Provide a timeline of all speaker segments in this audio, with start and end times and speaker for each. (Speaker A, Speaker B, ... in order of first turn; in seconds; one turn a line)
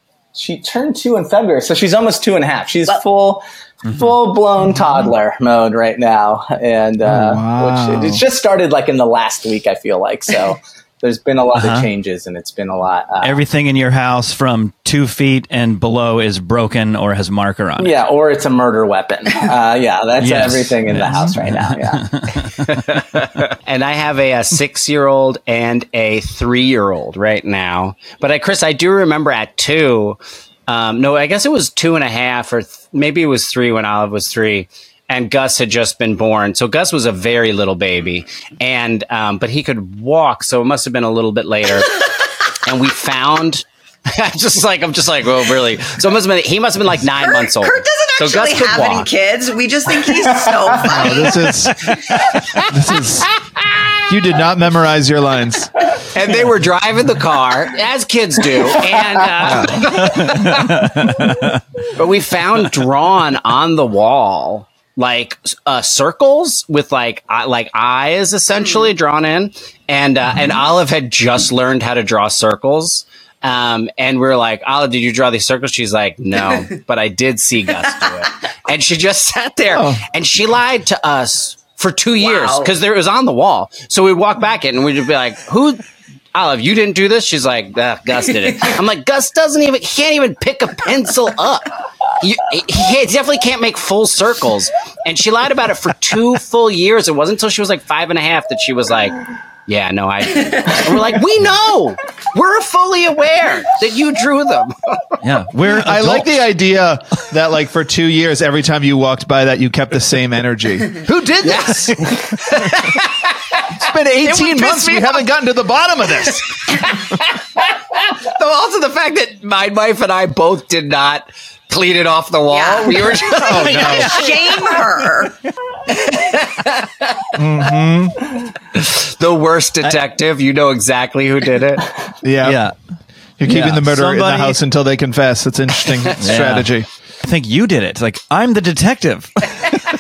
Speaker A: 0.3-13.4
Speaker B: 7.0-8.2
Speaker C: 11.6-11.9
Speaker C: 13.2-17.9
Speaker A: 17.8-22.5
Speaker C: 20.2-22.6
Speaker D: 22.7-42.0
Speaker D: 42.5-49.1
Speaker E: 47.2-51.9
Speaker B: 50.8-53.3
Speaker D: 51.9-52.7
Speaker D: 53.5-54.0
Speaker B: 54.1-55.9
Speaker D: 56.1-60.7
Speaker B: 59.5-59.9
Speaker C: 59.9-61.6
Speaker D: 61.9-105.2
Speaker E: 68.5-68.9
Speaker B: 79.7-80.0
Speaker E: 82.2-82.7
Speaker C: 105.2-106.4
Speaker B: 105.7-112.0
Speaker D: 111.4-115.2
Speaker B: 113.7-117.0
Speaker D: 116.2-124.9
Speaker E: 122.5-125.3
Speaker B: 123.3-124.2
Speaker D: 125.9-127.4
Speaker B: 127.3-128.3
Speaker D: 128.7-131.9
Speaker B: 132.2-132.6
Speaker C: 132.4-132.7
Speaker B: 133.4-136.9
Speaker C: 133.4-134.6
Speaker C: 136.2-136.7
Speaker C: 137.2-139.4